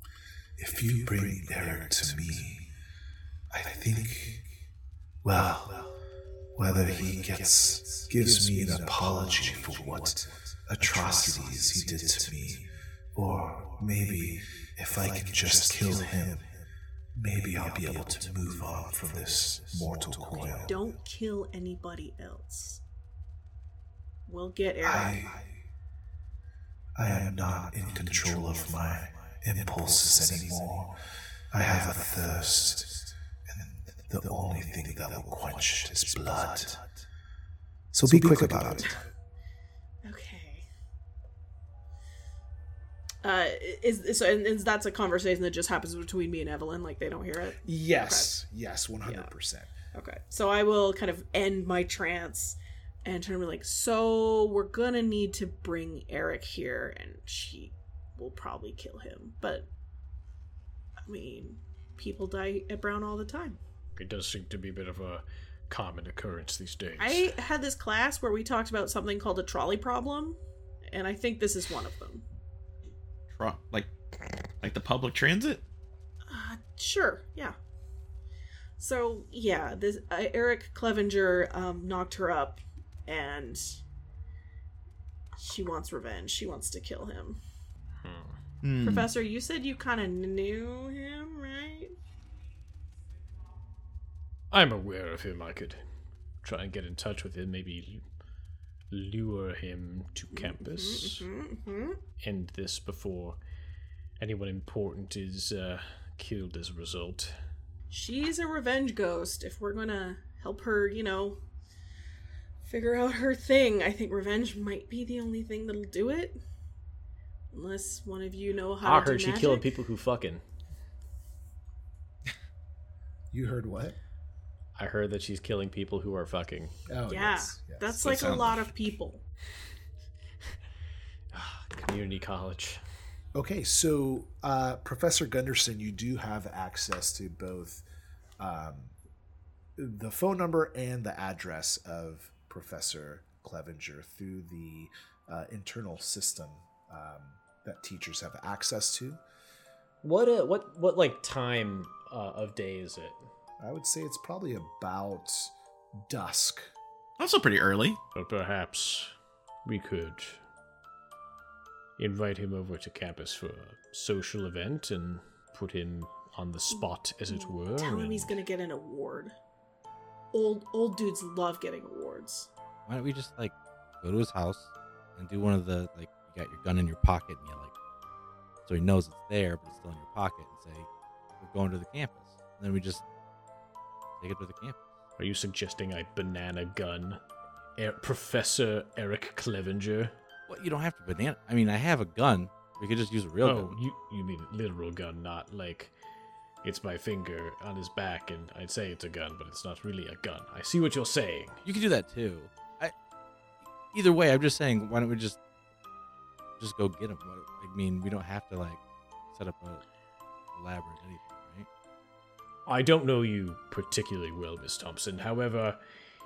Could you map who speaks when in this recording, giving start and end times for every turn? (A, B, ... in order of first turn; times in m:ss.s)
0:00.6-0:02.7 A
0:03.5-0:04.4 A
0:05.2-0:05.8 A
0:06.6-0:16.5 A
0:09.0-0:09.6 B
0:17.2-0:20.8 A
0:20.6-0:22.8 C
0:24.3-0:25.4 C
0:24.8-0:25.4 A
0:27.0-0:31.0 A
0:31.5-0:36.8 A
0:37.9-0:39.0 A
0:38.8-0:39.1 C
0:40.0-0:40.6 C
0:43.2-0:48.4 C
0:47.6-0:49.7 A
0:49.0-0:49.3 C
0:49.9-0:59.7 C
1:01.0-1:03.6 C
1:04.0-1:07.3 D
1:07.0-1:12.2 C
1:13.3-1:13.9 E
1:14.6-1:15.6 E
1:16.3-1:17.6 C
1:18.8-1:23.8 C
1:25.4-1:27.4 C
1:28.0-1:28.4 D
1:28.6-1:29.1 E
1:28.8-1:31.9 C
1:34.5-1:35.8 D
1:36.4-1:38.0 D
1:38.9-1:41.3 D
1:40.4-1:42.0 C
1:42.2-1:43.4 D
1:44.2-1:47.4 D
1:47.9-1:51.4 C
1:52.6-1:56.4 C
1:57.5-1:59.6 C
1:58.8-2:00.4 D
2:03.3-2:04.0 A
2:04.8-2:06.8 D
2:06.9-2:08.5 A
2:07.1-2:09.2 C
2:08.0-2:08.5 E
2:11.3-2:12.8 D
2:13.3-2:17.8 A
2:18.4-2:18.9 A
2:19.8-2:29.2 A
2:30.0-2:33.2 D
2:33.6-2:35.5 A
2:36.1-2:36.7 A
2:37.2-2:38.0 E
2:38.1-2:39.1 D
2:39.6-2:40.4 D
2:42.0-2:48.3 D
2:46.7-2:49.3 C
2:50.3-2:52.5 C
2:52.9-2:57.7 B
2:58.6-3:00.9 B
3:01.4-3:03.0 B
3:04.2-3:04.8 B
3:05.2-3:07.2 D
3:07.8-3:10.1 D
3:10.5-3:13.8 B
3:13.4-3:15.9 D
3:16.6-3:21.6 D
3:21.6-3:22.9 B
3:23.9-3:25.4 B
3:26.6-3:28.8 B
3:29.3-3:29.8 B
3:30.5-3:31.7 B
3:32.6-3:35.8 D